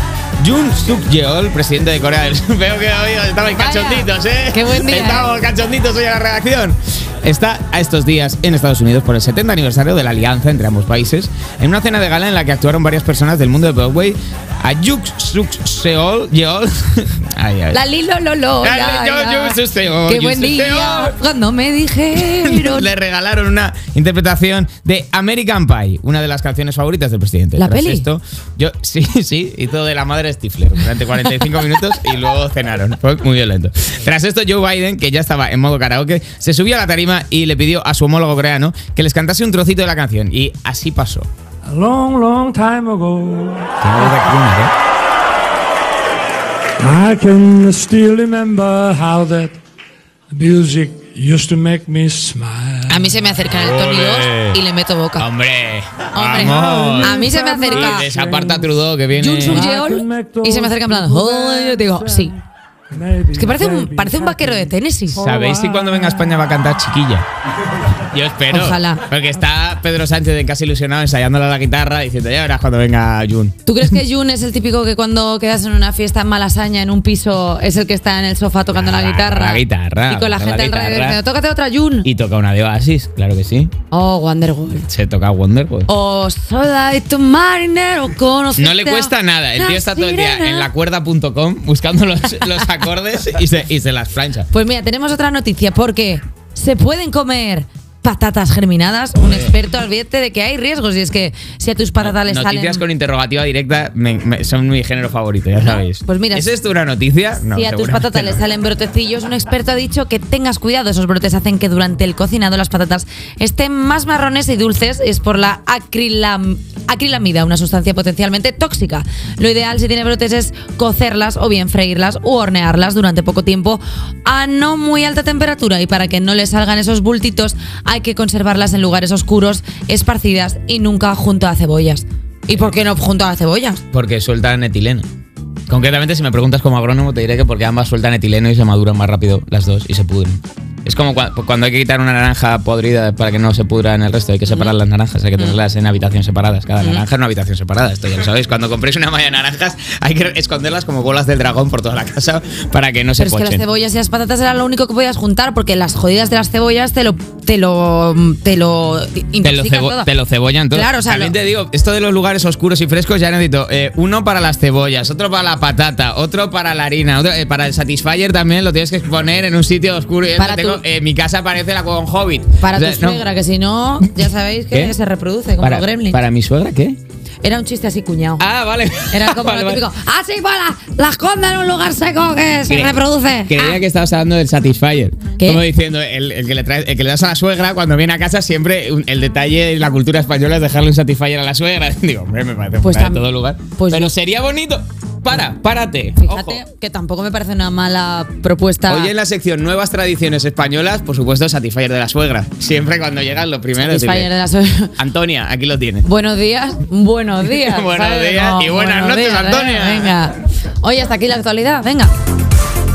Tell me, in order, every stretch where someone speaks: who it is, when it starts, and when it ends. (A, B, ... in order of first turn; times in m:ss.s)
0:00.4-0:17.8 A
0:03.5-0:05.3 B
0:17.7-0:22.9 B
0:18.6-0:21.2 A
0:22.2-0:41.3 A
0:27.6-0:28.1 B
0:41.7-0:44.3 C
0:43.8-0:44.7 A
0:46.8-0:49.6 C
0:50.3-0:53.1 C
0:52.9-0:55.3 B
0:53.5-0:54.6 A
0:55.2-0:59.7 A
0:56.1-0:58.1 B
0:56.3-0:58.7 C
0:59.2-1:02.4 B
0:59.5-1:06.5 C
1:03.3-1:05.2 B
1:05.2-1:07.3 A
1:08.0-1:14.0 A
1:08.5-1:09.0 B
1:13.7-1:22.1 B
1:18.7-1:21.2 A
1:22.0-1:23.7 A
1:23.9-1:24.9 B
1:24.9-1:25.9 A
1:25.9-1:30.7 B
1:28.6-1:34.5 A
1:34.5-1:42.8 B
1:42.0-1:48.4 A
1:45.9-1:46.5 B
1:47.5-2:13.8 B
2:13.9-2:15.1 A
2:15.7-2:33.6 A
2:24.5-2:24.8 B
2:33.2-2:40.1 B
2:39.4-2:53.3 A
2:40.7-2:41.3 B
2:50.4-2:50.8 B
2:52.6-2:56.2 B
2:55.6-2:57.0 A
2:57.4-2:58.4 B
2:58.4-2:59.8 A
2:59.1-3:03.8 B
3:02.7-3:16.6 A
3:12.8-3:14.1 B
3:16.2-3:19.1 B
3:18.9-3:24.3 A
3:23.8-3:24.9 B
3:25.0-3:26.1 A
3:26.0-3:32.1 B
3:27.4-3:30.3 A